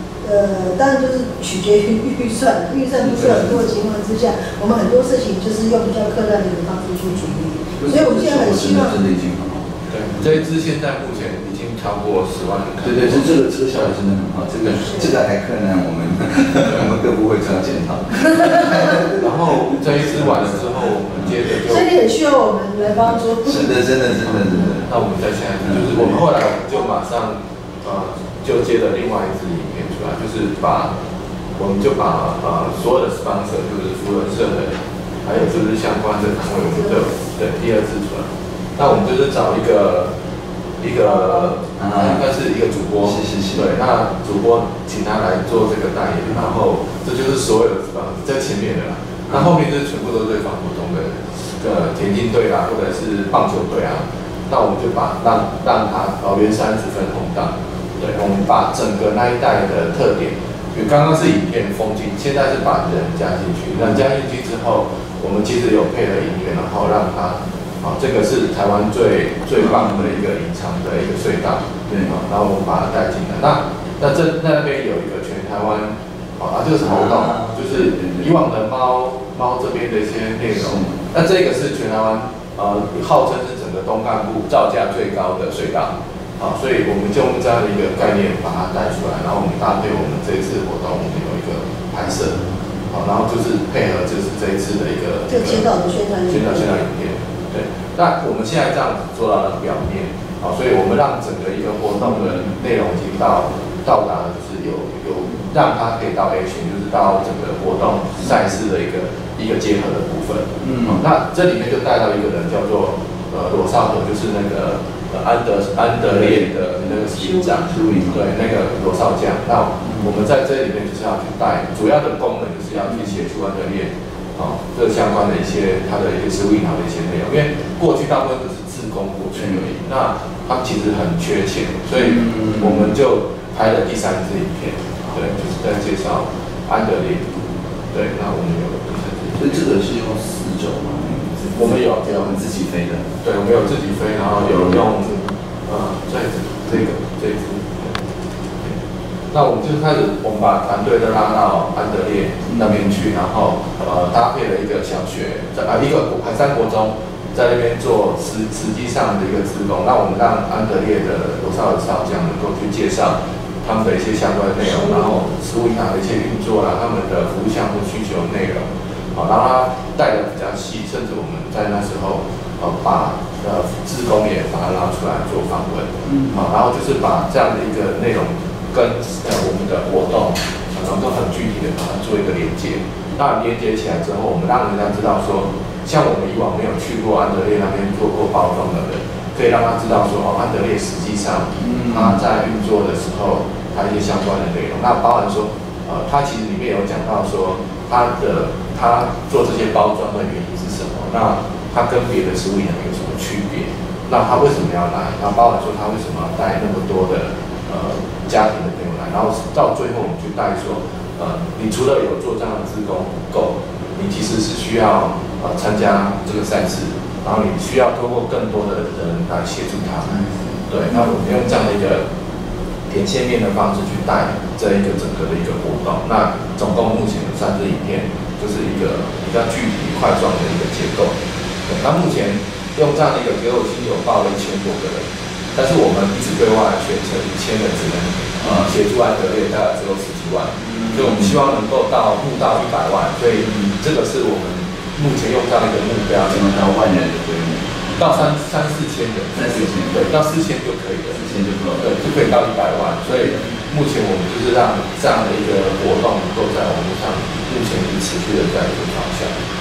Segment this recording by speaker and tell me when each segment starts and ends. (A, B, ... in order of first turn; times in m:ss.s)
0:00.2-0:09.0 A
0:07.8-0:09.8 B
0:09.9-0:13.3 C
0:12.8-0:19.8 B
0:19.2-0:21.9 C
0:21.6-0:23.7 A
0:23.4-0:24.9 B
0:24.8-0:30.9 C
0:25.6-0:26.2 B
0:31.6-0:40.1 C
0:40.8-2:17.4 C
0:41.8-0:42.2 B
0:43.0-0:43.7 B
1:09.6-1:10.1 B
1:11.9-1:12.2 B
1:16.8-1:18.4 B
1:20.6-1:21.0 B
1:35.3-1:36.8 A
1:50.6-1:51.0 B
1:56.0-1:58.3 B
1:59.8-2:00.1 B
2:09.4-2:09.7 B
2:12.0-2:12.9 B
2:17.9-2:19.6 C
2:19.4-2:23.0 B
2:21.5-2:22.4 C
2:23.2-2:28.1 C
2:24.4-2:24.8 B
2:29.3-3:40.2 C
2:32.5-2:32.9 B
2:56.1-2:56.4 B
3:11.6-3:12.2 B
3:40.1-3:41.1 B
3:40.7-3:42.0 C
3:42.9-3:51.2 C
3:51.7-4:06.4 C
3:58.4-3:58.7 B
4:00.6-4:01.4 B
4:03.4-4:03.7 B
4:06.2-4:08.3 B
4:08.0-4:11.2 C
4:09.3-4:10.4 B
4:11.1-4:12.1 B
4:11.8-4:19.3 C
4:13.1-4:13.6 B